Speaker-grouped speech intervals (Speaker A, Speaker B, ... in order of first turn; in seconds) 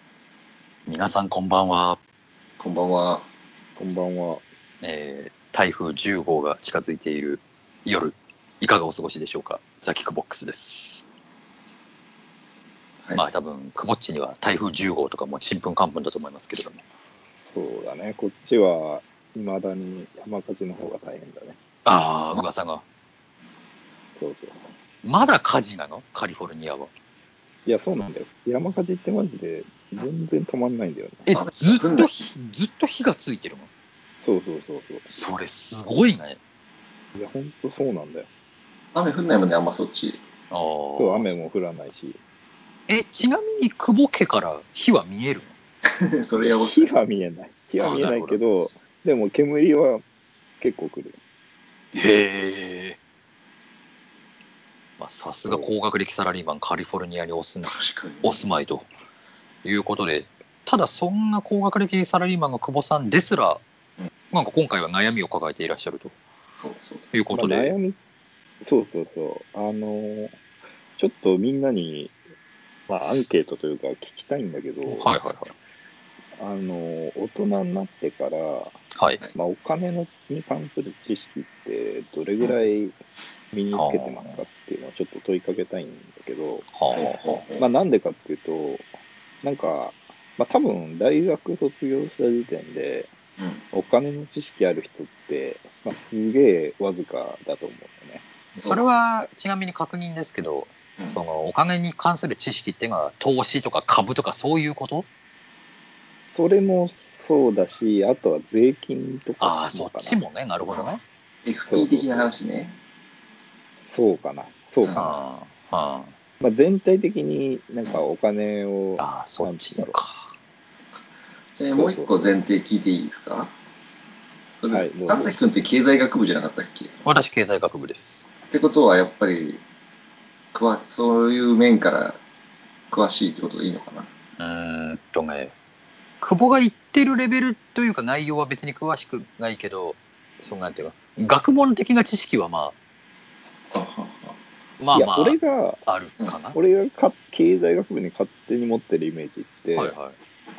Speaker A: 0.8-2.0, 4.8-11.0, 13.1-16.8, 21.8-22.8, 25.0-26.9, 31.3-33.7, 35.1-36.4, 40.5-41.3, 42.9-45.5, 47.8-48.4, 51.9-53.0, 55.0-58.9, 59.6-63.6, 64.3-66.1, 67.1-67.7, 74.9-75.5, 79.0-79.2, 83.7-84.4, 86.7-87.2, 98.6-105.1, 109.4-111.0, 114.9-116.1, 119.0-120.3, 127.0-128.3, 134.4-135.5, 136.2-142.7, 144.8-146.6, 149.8-150.2
Speaker B: 2.6-3.2, 31.3-32.3, 38.9-40.2, 45.8-46.9, 57.6-58.4, 66.6-67.1, 86.9-87.6, 93.4-93.6, 98.5-98.8, 111.4-112.8, 114.8-115.2, 120.8-123.5, 124.5-127.0, 128.5-129.6, 130.5-132.2, 132.9-134.1, 143.7-144.3
Speaker C: 3.8-4.4, 17.0-21.6, 24.1-24.6, 27.6-31.3, 34.2-35.1, 37.1-38.3, 40.9-42.2, 46.6-50.0, 50.6-51.2, 67.3-68.0, 68.6-70.4, 71.0-72.1, 72.9-75.1, 76.4-78.8, 79.3-83.0, 83.5-86.7, 87.6-88.9, 89.4-93.1, 93.7-98.3, 106.3-110.2, 111.7-112.3, 113.8-115.0, 116.4-120.0, 121.7-122.4, 124.7-125.4, 144.9-145.8, 146.5-149.9